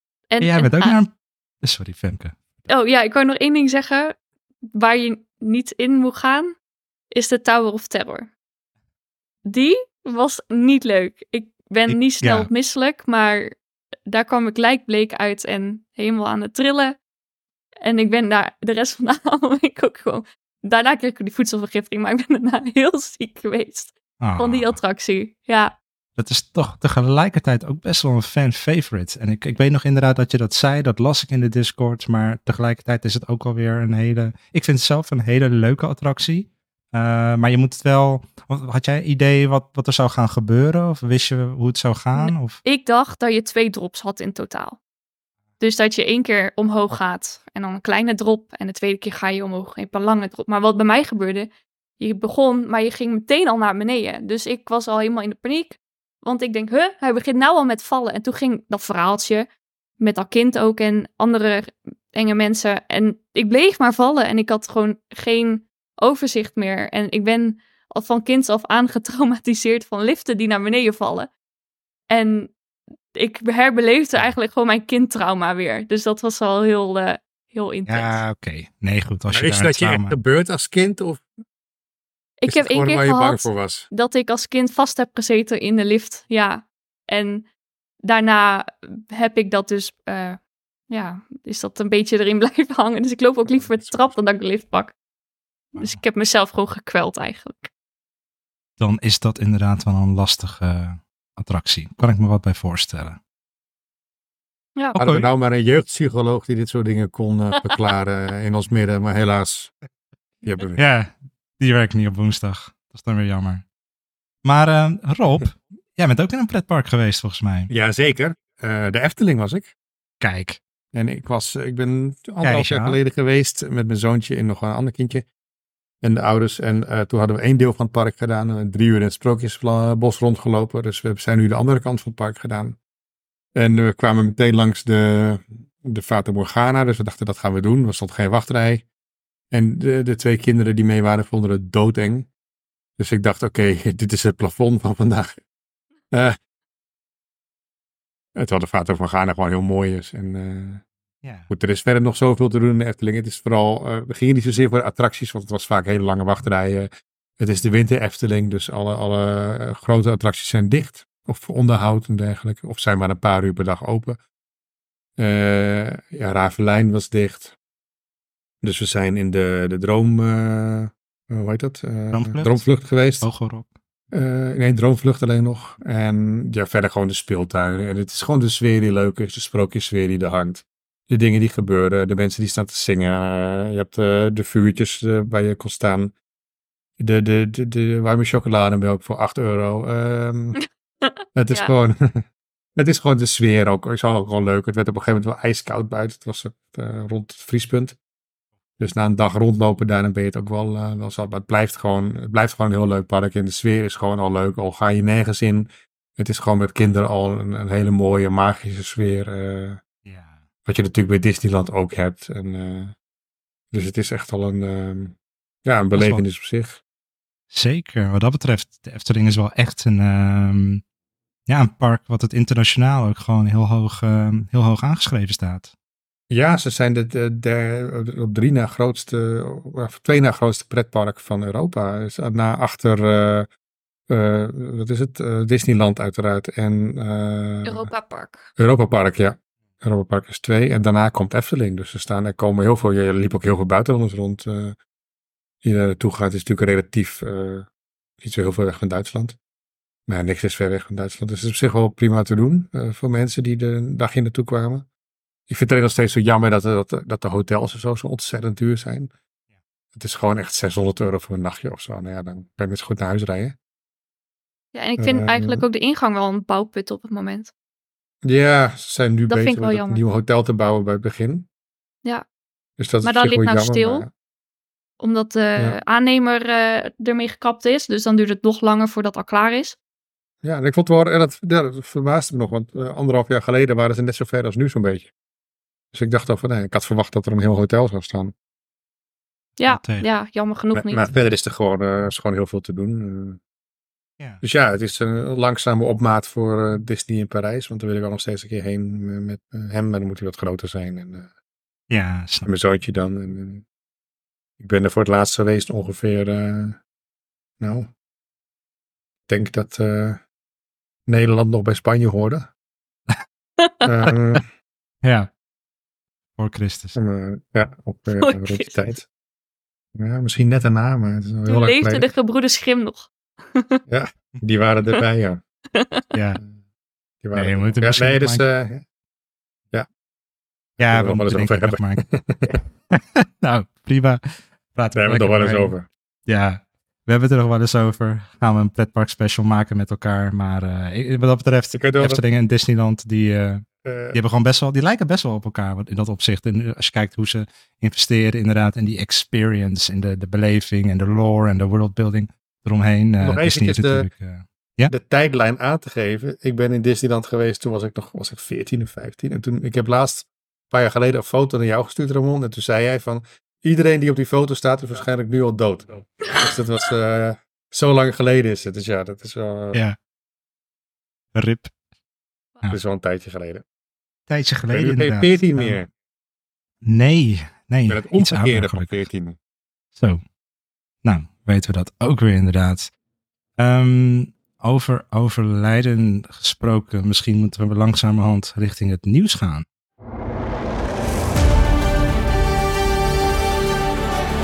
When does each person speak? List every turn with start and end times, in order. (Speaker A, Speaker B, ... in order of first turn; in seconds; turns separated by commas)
Speaker A: 0.3-0.9, Speaker B: 0.4-2.7, Speaker A: 2.7-4.1, Speaker A: 4.7-6.5, Speaker A: 7.1-8.3, Speaker A: 9.4-13.6, Speaker B: 11.9-12.5, Speaker A: 14.1-16.9, Speaker A: 17.8-25.8, Speaker B: 24.2-24.8, Speaker B: 26.1-42.6, Speaker A: 42.1-44.8, Speaker A: 45.6-59.5, Speaker A: 60.0-71.3, Speaker A: 72.1-72.5, Speaker A: 73.1-78.2, Speaker B: 77.9-80.1, Speaker C: 79.3-81.2, Speaker A: 82.4-87.5, Speaker C: 82.5-83.9, Speaker A: 88.0-90.4, Speaker A: 90.9-94.9, Speaker C: 93.5-94.2, Speaker A: 95.7-97.7, Speaker B: 95.8-96.0, Speaker B: 98.8-103.2, Speaker C: 105.0-109.7, Speaker B: 105.0-105.3, Speaker C: 110.4-110.8, Speaker B: 110.8-113.6, Speaker B: 114.4-117.7, Speaker C: 117.7-119.7, Speaker B: 120.2-120.6, Speaker C: 120.9-125.2, Speaker B: 122.4-123.0, Speaker C: 126.0-132.8, Speaker C: 133.5-138.8, Speaker C: 139.5-142.3, Speaker C: 143.0-145.4, Speaker C: 146.1-146.4, Speaker C: 148.3-150.8, Speaker B: 151.2-151.5, Speaker C: 151.5-164.2, Speaker C: 165.2-167.5, Speaker C: 168.6-173.3, Speaker B: 172.1-172.6, Speaker B: 173.2-173.7, Speaker C: 174.1-186.1, Speaker C: 187.0-190.6, Speaker A: 190.6-191.7, Speaker C: 191.3-192.2, Speaker C: 192.8-198.0, Speaker C: 198.8-209.8, Speaker B: 210.0-210.4, Speaker C: 210.7-212.9, Speaker C: 213.7-216.8, Speaker B: 215.9-216.2, Speaker B: 217.5-220.8, Speaker B: 221.5-225.7, Speaker C: 226.3-233.5, Speaker C: 234.1-237.9, Speaker A: 237.6-238.4, Speaker C: 238.6-244.8, Speaker C: 245.6-247.7, Speaker C: 248.2-249.4, Speaker C: 250.1-254.8, Speaker C: 255.5-259.1, Speaker C: 259.9-263.5, Speaker A: 264.7-267.5, Speaker C: 265.0-265.6, Speaker C: 268.2-271.5, Speaker A: 269.3-270.0, Speaker C: 272.8-274.1, Speaker A: 273.0-274.0, Speaker A: 275.0-279.8, Speaker C: 280.4-285.1, Speaker C: 285.9-288.3, Speaker A: 289.6-291.1, Speaker B: 289.6-290.1, Speaker C: 290.7-293.4, Speaker C: 294.4-301.3, Speaker B: 301.9-302.5, Speaker C: 302.4-303.6, Speaker C: 304.6-306.8, Speaker C: 307.6-307.9, Speaker C: 309.3-310.2, Speaker C: 311.1-312.5, Speaker A: 313.6-313.8, Speaker C: 313.8-314.5, Speaker B: 315.0-315.3, Speaker B: 316.4-316.9, Speaker C: 316.9-319.1, Speaker A: 318.1-318.8, Speaker C: 319.9-322.1, Speaker A: 321.5-323.8, Speaker C: 323.9-325.4, Speaker A: 325.7-326.1, Speaker B: 326.1-326.4, Speaker C: 327.2-328.8, Speaker B: 327.3-328.4, Speaker B: 330.8-332.0, Speaker C: 330.8-332.5, Speaker B: 332.9-335.7, Speaker C: 334.9-335.9, Speaker B: 336.3-354.9, Speaker C: 341.7-342.2, Speaker C: 343.8-344.2, Speaker C: 353.2-354.0, Speaker C: 354.9-369.8, Speaker B: 371.3-371.7, Speaker C: 372.7-373.6, Speaker B: 374.3-375.8, Speaker C: 374.7-375.9, Speaker B: 376.8-378.9, Speaker C: 377.9-379.4, Speaker B: 379.9-380.2, Speaker B: 381.0-382.9, Speaker B: 383.6-389.6